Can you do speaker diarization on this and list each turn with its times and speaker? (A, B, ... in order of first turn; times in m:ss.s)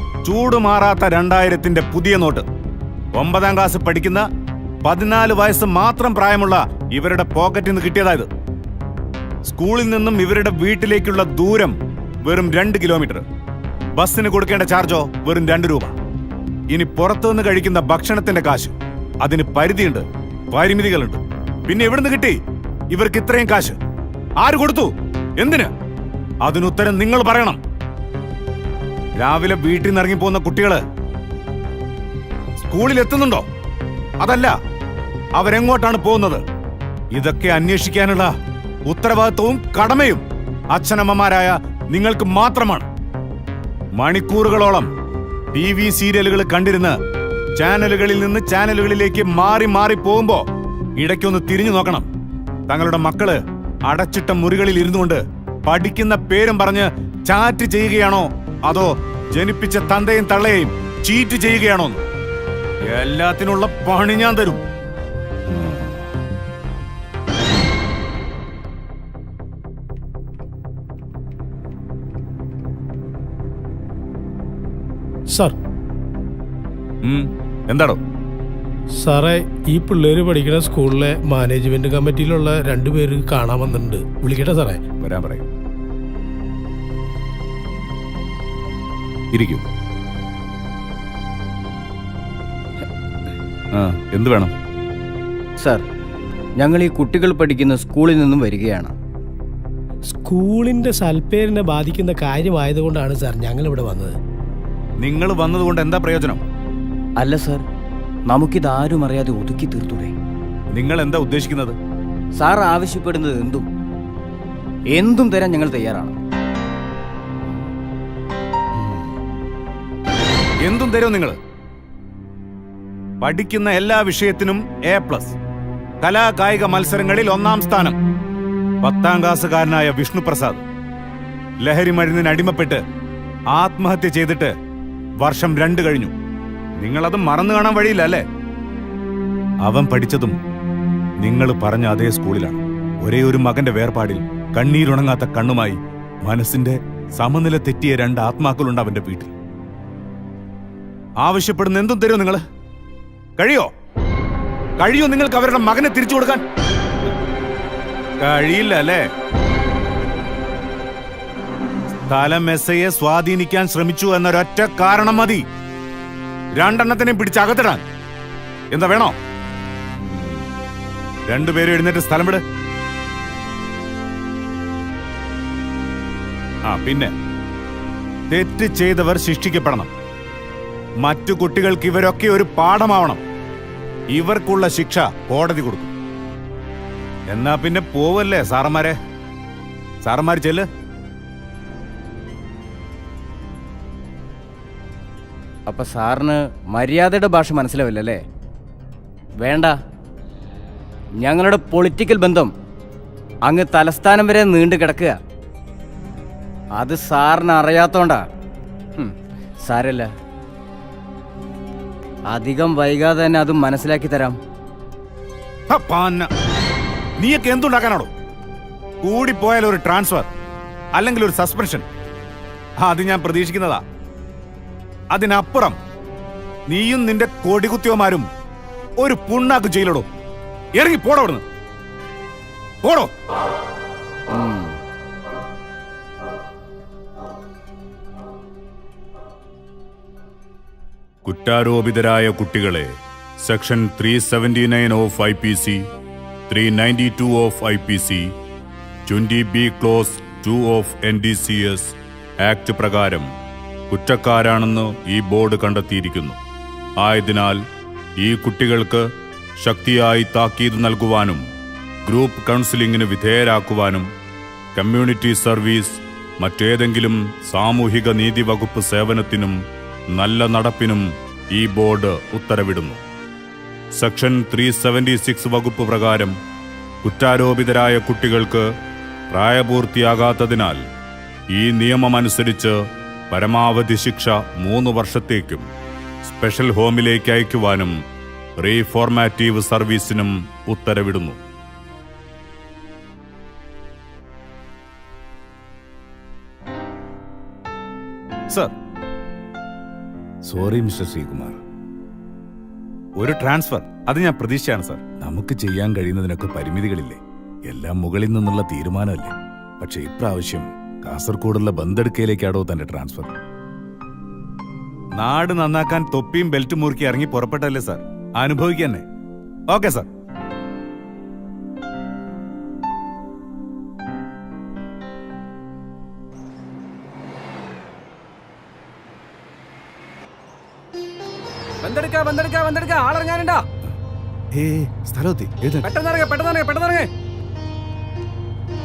0:00.2-0:02.4 A
0:03.1-0:04.2 A
0:04.8-0:08.3 A
0:09.4-0:13.2 A
0:13.9-0:15.9 A
0:16.7-0:22.4 A
0:22.9-0:23.8 A
0:24.4-0:25.7 A
0:26.4-0:27.6 A
0:29.2-0:30.8 A
0:32.6-0:33.4 A
0:34.2-0:34.5 A
0:35.4-0:36.4 A
0:37.1-0:38.3 A
0:38.8-0:42.8 A
0:44.0-0:44.9 A
0:45.5-0:47.0 A
0:47.6-0:50.4 A
0:51.0-0:52.1 A
0:52.7-1:02.0 A
1:02.9-1:04.6 A
1:05.5-1:06.0 A
1:15.3-1:15.6 B
1:17.0-1:18.0 A
1:19.0-1:24.8 B
1:25.0-1:25.4 A
1:29.3-1:29.6 A
1:33.7-1:34.5 A
1:35.6-1:35.8 C
1:36.6-1:38.9 C
1:40.1-1:44.1 B
1:45.0-1:46.4 A
1:47.2-1:47.6 C
1:48.3-1:50.1 C
1:50.7-1:51.8 A
1:52.4-1:53.6 C
1:54.9-1:56.2 C
2:00.6-2:01.4 A
2:03.2-2:05.4 A
2:06.0-2:08.0 A
2:08.8-2:10.6 A
2:11.6-2:12.8 A
2:13.5-2:14.5 A
2:15.2-2:16.1 A
2:16.8-2:18.2 A
2:19.6-2:20.3 A
2:21.2-2:29.3 A
2:31.2-2:32.4 A
2:33.4-2:33.7 A
2:34.8-2:36.4 A
2:38.2-2:39.0 A
2:42.1-2:45.4 A
2:46.6-2:47.8 A
2:48.7-2:49.1 A
2:51.3-2:52.4 A
2:56.7-2:57.1 A
2:58.3-2:59.9 A
3:01.0-3:03.2 A
3:04.1-3:05.9 A
3:07.3-3:09.0 A
3:10.0-3:10.6 A
3:15.7-3:18.2 C
3:19.4-3:19.7 C
3:21.2-3:22.5 C
3:23.4-3:25.2 C
3:26.7-3:28.3 C
3:29.0-3:30.1 C
3:32.3-3:34.4 C
3:35.7-3:36.3 A
3:37.2-3:38.1 A
3:39.0-3:40.3 A
3:40.9-3:41.8 A
3:42.8-3:43.8 A
3:45.1-3:45.8 A
3:46.7-3:48.2 A
3:49.0-3:50.0 A
3:50.8-3:51.4 A
3:52.8-3:53.1 A
3:54.3-3:54.7 C
4:01.2-4:02.9 A
4:03.4-4:05.8 A
4:06.5-4:08.3 A
4:09.0-4:13.3 A
4:13.9-4:16.4 A
4:17.0-4:17.6 A
4:18.2-4:19.1 A
4:19.6-4:21.4 A
4:22.0-4:24.1 A
4:24.8-4:29.6 A
4:30.1-4:33.0 A
4:34.0-4:36.3 A
4:37.0-4:38.7 A
4:39.3-4:40.8 A
4:41.5-4:42.8 A
4:43.3-4:45.6 A
4:46.2-4:47.9 A
4:48.6-4:51.4 A
5:00.4-5:01.6 A
5:03.2-5:13.4 A
5:15.2-5:19.0 A
5:19.7-5:20.1 A
5:31.8-5:33.3 D
5:34.5-5:35.9 A
5:36.0-5:37.1 D